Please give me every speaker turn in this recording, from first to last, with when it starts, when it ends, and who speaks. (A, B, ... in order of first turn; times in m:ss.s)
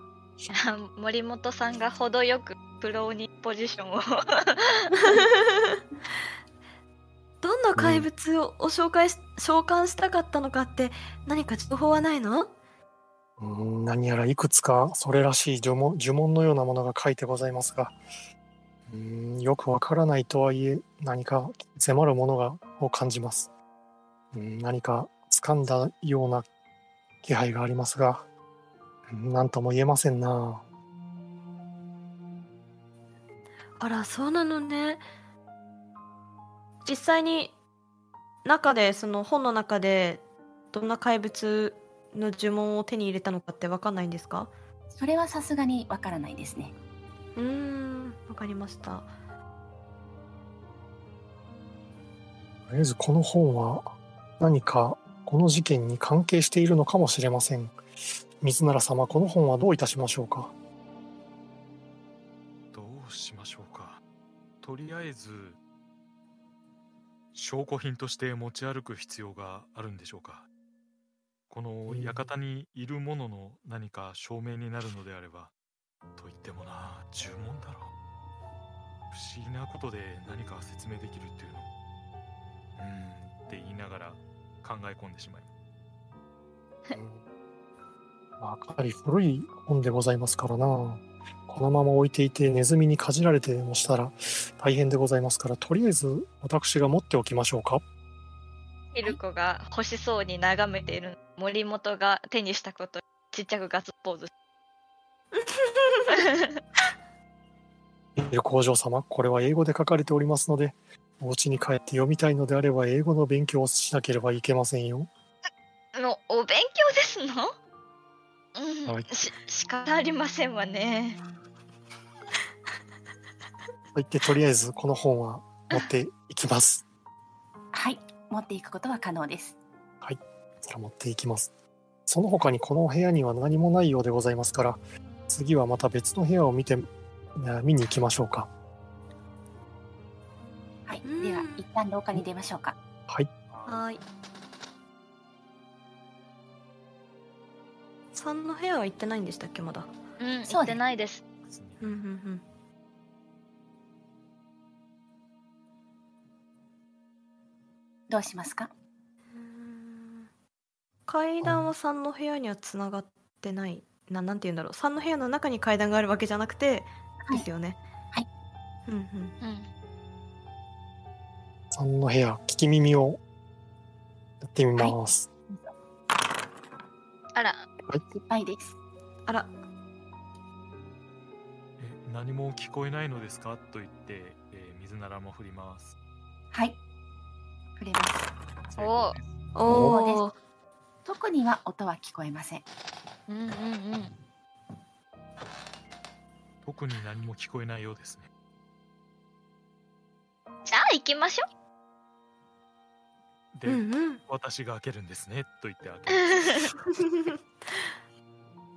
0:00.5-0:05.1 A
0:04.9-0:05.8 B
0:07.4-0:12.5 B
0:07.8-0:08.1 C
0:13.4-0:18.0 C
0:18.9-0:23.5 C
0:24.3-0:26.4 C
0:27.2-0:28.2 C
0:29.1-0:30.6 C
0:33.8-0:35.0 B
0:36.8-0:37.5 B
0:38.4-0:40.2 B
0:40.7-0:44.5 B
0:44.9-0:46.7 D
0:47.4-0:49.1 B
0:52.7-0:53.9 C
0:54.4-0:57.8 C
0:58.4-1:00.5 C
1:02.7-1:04.0 E
1:04.6-1:05.6 E
1:07.3-1:10.5 E
1:11.5-1:15.5 E
1:11.9-1:12.3 C
1:16.2-1:17.9 E
1:19.1-1:21.7 E
1:22.8-1:25.5 E
1:26.9-1:27.2 C
1:28.4-1:37.8 C
1:38.9-1:44.3 A
1:45.3-1:46.3 B
1:46.1-1:46.6 A
1:48.2-1:55.1 C
1:56.0-1:57.5 A
1:58.6-2:01.2 A
2:03.9-2:06.8 C
2:07.7-2:09.6 D
2:10.0-2:11.5 C
2:12.1-2:18.5 C
2:20.9-2:22.8 D
2:21.0-2:21.6 B
2:23.5-2:23.8 E
2:23.7-2:24.0 B
2:28.1-2:29.9 B
2:30.2-2:31.2 A
2:30.5-2:30.8 D
2:31.4-2:32.0 E
2:31.8-2:32.4 B
2:38.1-2:38.7 D
2:39.3-2:40.3 B
2:41.1-2:47.8 B
2:41.4-2:41.7 C
2:48.9-2:49.3 B
2:49.4-2:49.7 A
2:51.7-2:53.2 C
2:54.4-2:55.3 C
2:57.3-2:57.6 A
2:58.1-2:58.8 D
3:01.8-3:05.9 E
3:06.5-3:06.8 D
3:07.8-3:08.3 D
3:08.7-3:09.3 E
3:08.8-3:09.2 A
3:09.5-3:10.4 B
3:09.6-3:10.2 D
3:09.6-3:09.9 C
3:11.0-3:12.6 D
3:13.3-3:14.1 A
3:16.6-3:18.3 E
3:20.6-3:21.4 A
3:23.5-3:26.7 E
3:23.6-3:24.2 B
3:26.3-3:26.6 A
3:26.9-3:27.4 B